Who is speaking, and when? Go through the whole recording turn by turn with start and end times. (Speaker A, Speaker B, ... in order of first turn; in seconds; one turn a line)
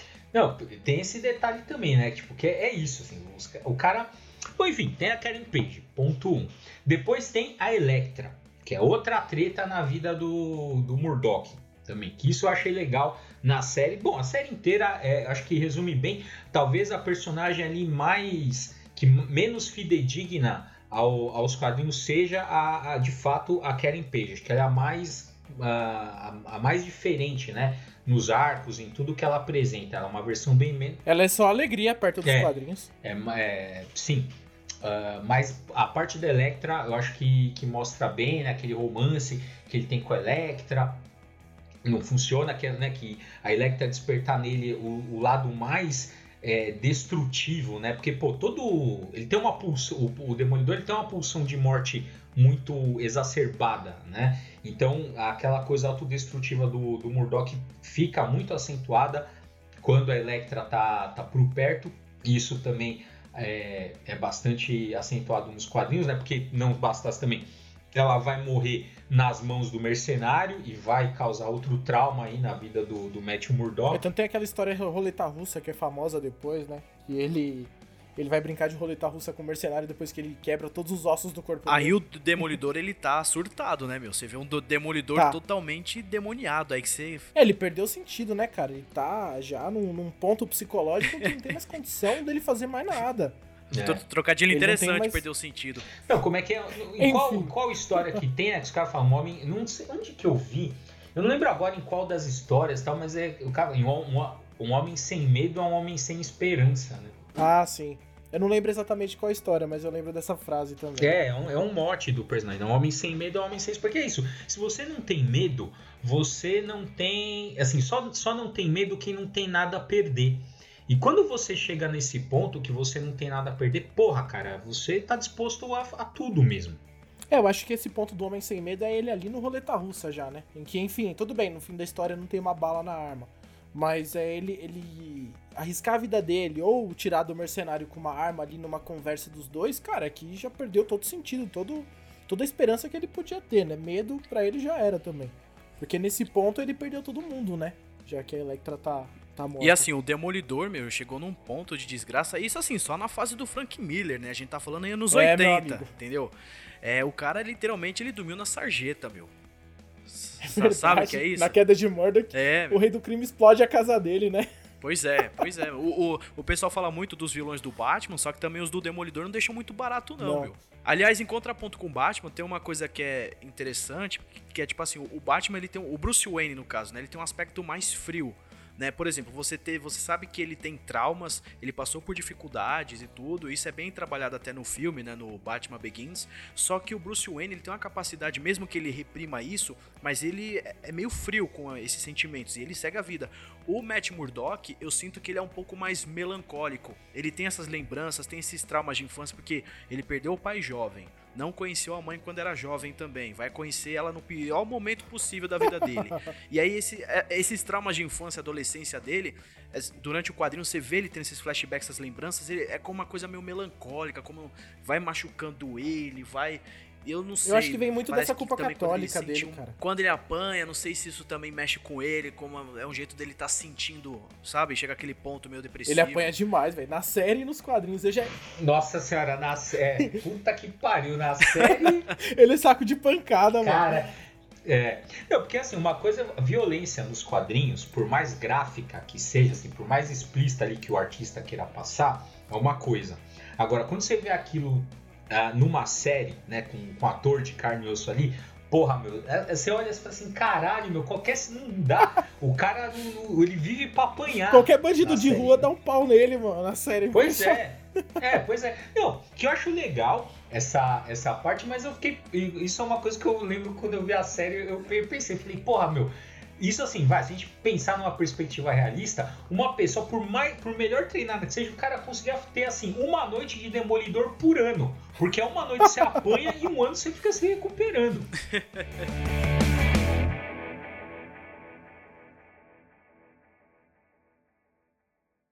Speaker A: 0.3-31.0
Speaker B: 31.0-32.9
Speaker A: 32.2-41.0
Speaker A: 41.8-59.3
Speaker A: 59.8-74.0
Speaker B: 73.9-82.6
Speaker C: 81.7-87.3
Speaker B: 87.3-93.4
Speaker C: 91.0-91.5
Speaker A: 93.7-94.0
Speaker C: 93.8-95.9
Speaker B: 94.5-95.2
Speaker A: 96.0-107.2
Speaker B: 97.0-97.5
Speaker B: 107.3-111.2
Speaker A: 111.0-126.8
Speaker B: 127.3-149.9
Speaker C: 149.6-159.3
Speaker B: 155.1-155.9
Speaker C: 160.1-161.6
Speaker B: 160.4-164.5
Speaker C: 162.3-162.8
Speaker C: 164.8-226.3
Speaker B: 170.2-170.5
Speaker B: 217.4-219.8
Speaker B: 225.8-228.3
Speaker A: 228.5-232.1
Speaker B: 232.2-234.0
Speaker A: 233.6-255.7
Speaker B: 254.5-257.6
Speaker A: 257.1-278.3